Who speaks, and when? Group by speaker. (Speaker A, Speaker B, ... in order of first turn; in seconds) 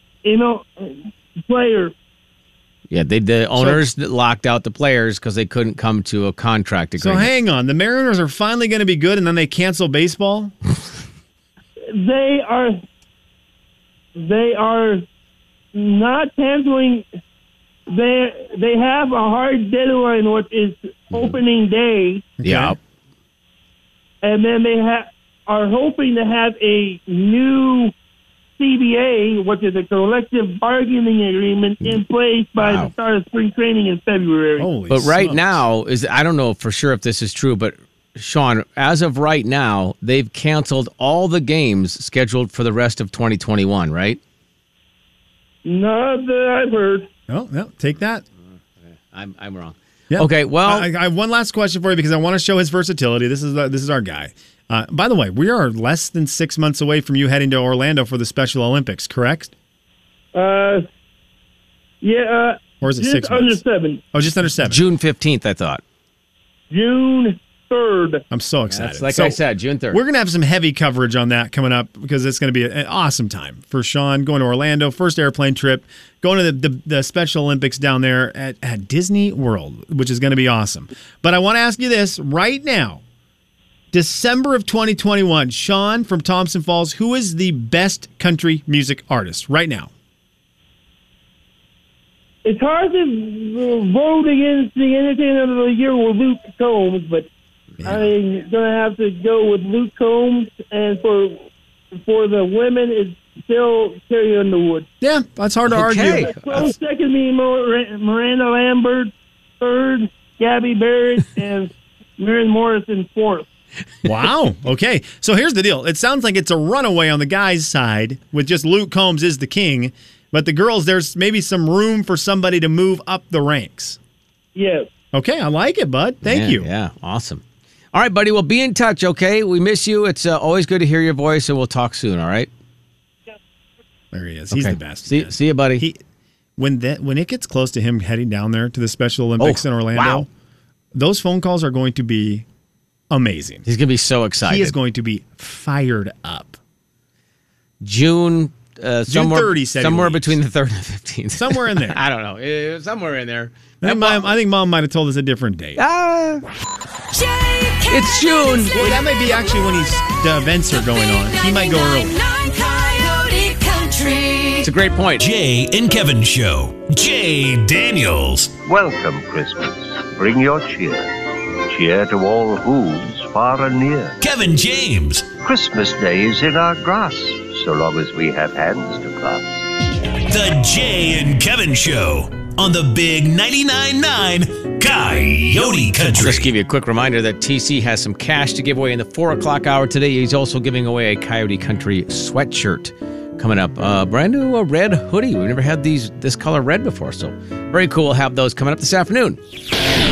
Speaker A: 0.2-1.9, 11.9-12.8, 14.2-15.0, 15.7-17.1, 17.9-22.3, 24.2-27.9, 28.6-34.7, 45.6-47.1, 60.3-60.9, 62.0-64.0, 66.7-68.2, 92.4-97.3, 97.8-104.8, 106.2-113.5, 124.5-124.9
Speaker B: 2.9-7.3, 22.4-22.8, 32.6-32.9, 34.9-44.2, 48.8-50.9, 64.6-65.8, 68.7-70.0, 105.7-106.3, 126.2-132.5, 134.5-135.8, 139.4-140.2, 143.7-144.7, 147.8-154.3, 155.8-156.4, 157.9-158.8, 164.6-165.2, 186.1-199.4
Speaker C: 3.5-3.8, 7.0-10.5, 22.4-22.8, 34.6-35.6, 47.3-48.2, 50.1-59.5, 62.8-63.6, 64.1-64.8, 68.3-69.4, 69.9-83.0, 83.9-89.9, 97.8-98.1, 105.0-106.7, 114.0-124.0, 125.1-126.7, 134.1-136.0, 136.6-140.3, 140.9-142.4, 143.1-143.6, 144.4-146.6, 149.1-150.4, 151.3-152.0, 153.8-155.8, 158.7-162.2
Speaker D: 157.1-159.9, 160.7-164.7
Speaker E: 165.2-168.6, 174.2-175.3, 180.2-186.5
Speaker F: 168.6-171.1, 171.7-174.2, 175.4-179.6